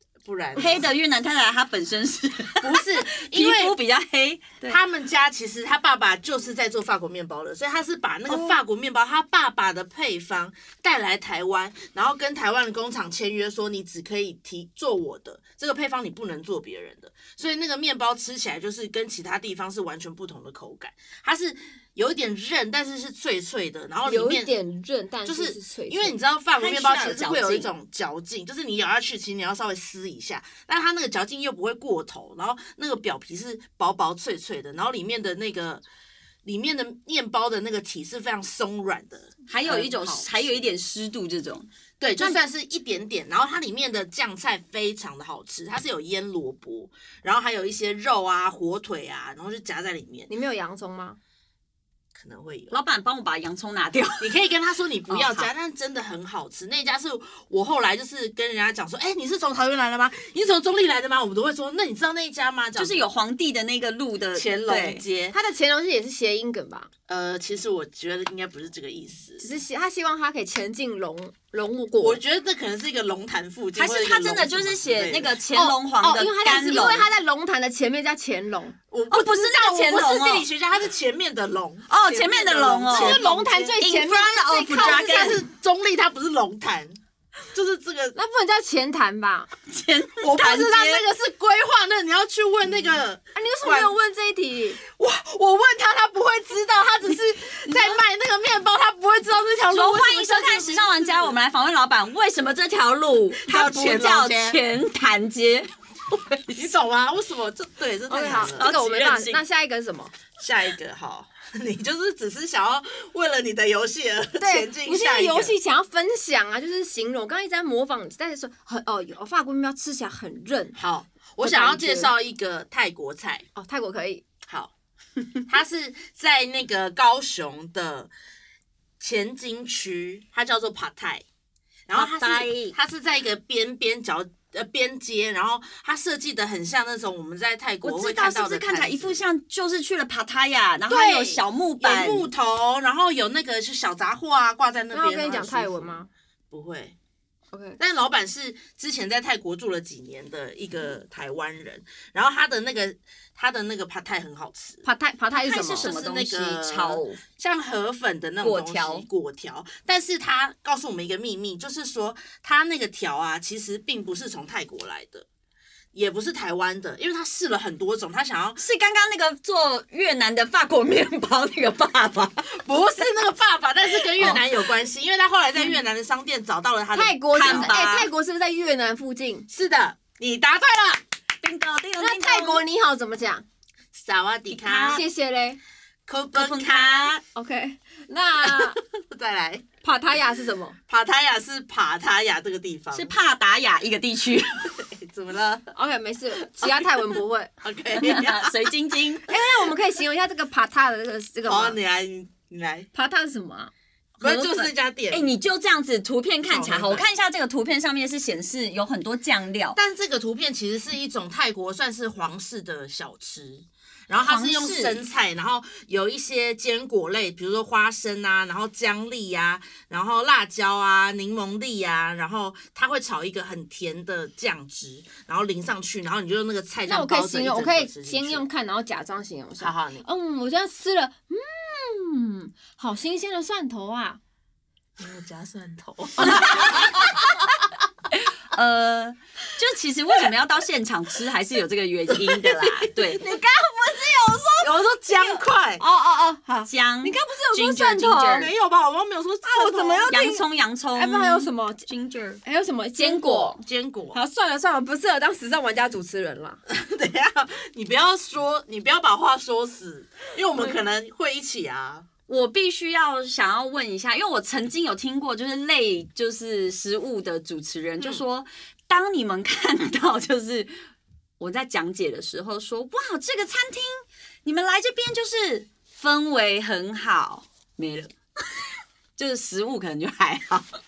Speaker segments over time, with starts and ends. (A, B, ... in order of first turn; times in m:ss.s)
0:00.2-0:00.9 A
0:00.5-0:04.8 B
0:02.6-0:03.8 A
0:04.7-0:24.5 A
0:08.3-0:08.6 B
0:24.0-0:26.2 C
0:25.2-0:35.8 A
0:26.6-0:27.7 B
0:36.4-0:40.6 A
0:39.5-0:41.7 B
0:42.0-0:50.3 A
0:50.3-0:51.2 C
0:52.1-0:52.7 A
0:52.7-0:54.4 B
0:54.2-1:03.0 A
0:55.1-0:55.5 B
1:02.8-1:05.0 B
1:04.3-1:05.4 A
1:05.3-1:06.9 C
1:07.1-1:09.4 A
1:09.4-1:12.2 C
1:12.0-1:15.3 A
1:13.8-1:17.1 B
1:15.5-1:18.8 C
1:18.9-1:23.8 A
1:19.1-1:20.5 B
1:21.9-1:23.2 B
1:22.9-1:25.4 C
1:23.8-1:25.4 B
1:24.7-1:27.0 A
1:27.5-1:28.2 A
1:28.1-1:29.5 C
1:29.7-1:31.0 B
1:30.2-1:33.9 A
1:33.3-1:34.8 C
1:34.8-1:41.3 A
1:37.7-1:38.0 B
1:39.7-1:46.6 B
1:43.4-1:44.6 A
1:46.5-1:48.7 A
1:48.1-1:50.1 C
1:48.5-1:49.4 B
1:50.4-1:55.5 A
1:54.4-2:00.8 C
2:00.8-2:03.4 A
2:01.4-2:02.1 C
2:03.5-2:04.2 C
2:04.4-2:04.7 A
2:05.5-2:08.1 A
2:09.0-2:11.2 A
2:11.9-2:19.2 A
2:11.9-2:12.7 B
2:17.8-2:22.3 B
2:20.9-2:26.9 A
2:24.9-2:26.1 C
2:27.5-2:27.8 C
2:27.8-2:34.8 A
2:34.8-2:35.9 C
2:35.3-2:37.2 B
2:35.6-2:45.2 A
2:38.4-2:39.0 B
2:45.9-2:48.6 A
2:48.6-2:52.4 B
2:52.4-2:57.8 A
2:54.1-2:54.4 B
2:56.9-2:59.5 C
2:57.3-2:58.1 B
2:59.5-3:01.0 A
3:01.4-3:02.6 B
3:02.0-3:03.4 C
3:03.9-3:05.0 A
3:04.5-3:05.0 B
3:04.9-3:05.6 C
3:06.1-3:07.2 A
3:06.3-3:07.2 B
3:07.3-3:08.8 C
3:08.4-3:09.6 A
3:09.8-3:10.8 C
3:10.9-3:13.1 A
3:12.9-3:14.8 B
3:14.7-3:15.7 A
3:15.7-3:17.5 C
3:17.6-3:18.7 A
3:18.0-3:19.2 B
3:19.3-3:21.8 C
3:21.4-3:22.9 A
3:22.9-3:24.7 C
3:24.2-3:25.3 A
3:25.1-3:29.8 B
3:26.4-3:27.0 A
3:29.7-3:48.4 A
3:34.2-3:35.0 B
3:46.8-3:54.2 C
3:49.6-3:50.0 A
3:55.0-3:57.1 A
3:56.2-3:56.9 B
3:56.3-3:56.9 C
3:58.5-4:03.2 B
4:02.1-4:03.0 A
4:03.2-4:08.5 C
4:04.6-4:05.8 A
4:06.7-4:08.5 B
4:08.3-4:10.1 A
4:09.4-4:10.4 C
4:10.1-4:12.4 B
4:10.9-4:11.8 C
4:12.4-4:16.6 C
4:13.0-4:13.5 B
4:13.6-4:14.2 A
4:16.7-4:22.0 A
4:22.3-4:30.7 B
4:31.4-4:38.1 B
4:39.2-4:40.7 B